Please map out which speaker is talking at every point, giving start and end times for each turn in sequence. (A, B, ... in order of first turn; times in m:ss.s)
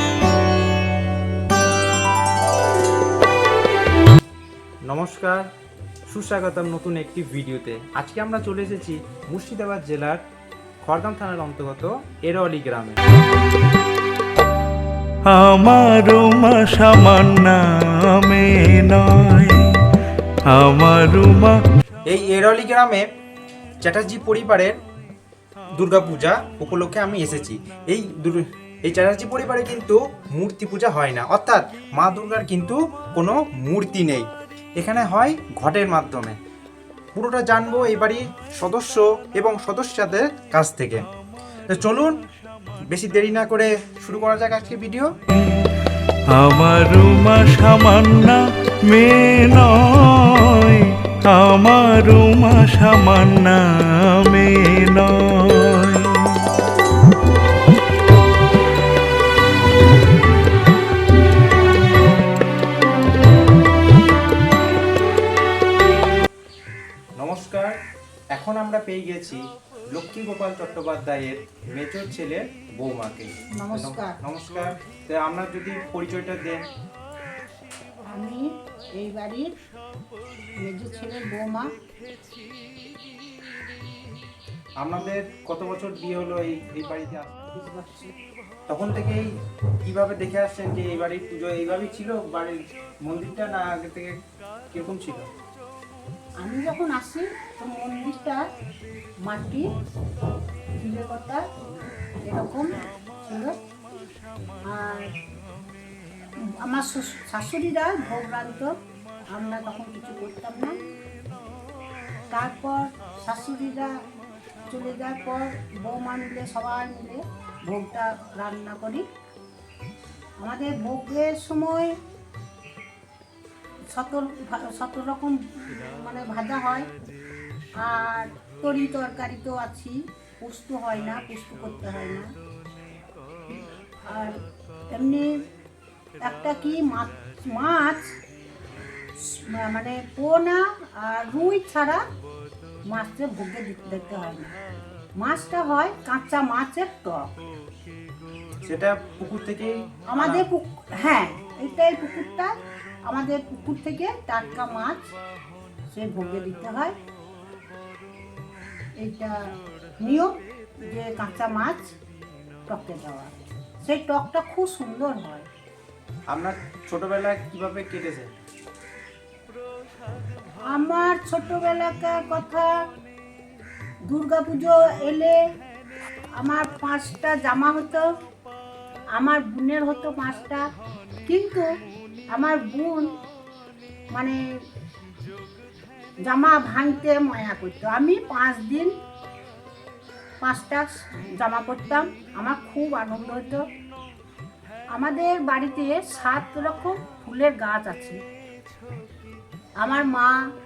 0:04.8-0:05.5 A
0:06.1-0:10.2 A
0:10.8-0:13.0 A
0:15.3-0:19.7 B
0:20.5-0:21.6 B
0:22.1-0:23.0 A
0:23.8-0:24.8 A
0:25.8-0:36.4 A
0:37.1-0:41.0 A
0:41.7-0:42.1 A
0:42.9-0:45.1 A
0:46.3-0:56.4 B
1:07.2-1:07.8 A
1:08.3-1:16.6 A
1:13.6-1:14.2 C
1:18.0-1:19.5 C
1:20.6-1:21.7 C
1:24.8-1:27.4 A
1:27.4-1:28.1 C
1:28.7-1:29.3 A
1:29.8-1:34.1 A
1:34.7-1:35.3 A
1:36.4-1:38.4 C
1:39.2-1:39.7 C
1:40.8-1:41.4 C
1:42.2-1:43.5 C
1:44.6-1:45.1 C
1:46.6-1:48.7 C
1:49.3-1:50.7 C
1:52.3-1:53.9 C
1:54.7-1:59.0 C
2:00.4-2:01.9 C
2:03.9-2:06.9 C
2:07.8-2:12.2 C
2:14.0-2:14.3 C
2:14.9-2:15.3 C
2:16.2-2:18.1 C
2:19.2-2:22.0 C
2:22.9-2:24.5 C
2:25.2-2:27.4 C
2:28.6-2:30.4 A
2:30.1-2:32.5 C
2:33.1-2:35.1 C
2:35.9-2:36.9 C
2:39.0-2:39.4 C
2:40.0-2:40.3 C
2:40.9-2:41.9 C
2:42.7-2:43.3 C
2:43.8-2:45.5 C
2:46.3-2:48.3 A
2:50.7-2:52.7 C
2:54.1-2:55.4 C
2:56.4-2:58.0 C
2:59.1-3:00.6 C
3:01.2-3:01.7 C
3:02.3-3:03.1 C
3:06.2-3:08.9 C
3:10.4-3:13.6 C
3:14.9-3:18.2 C
3:19.8-3:20.4 C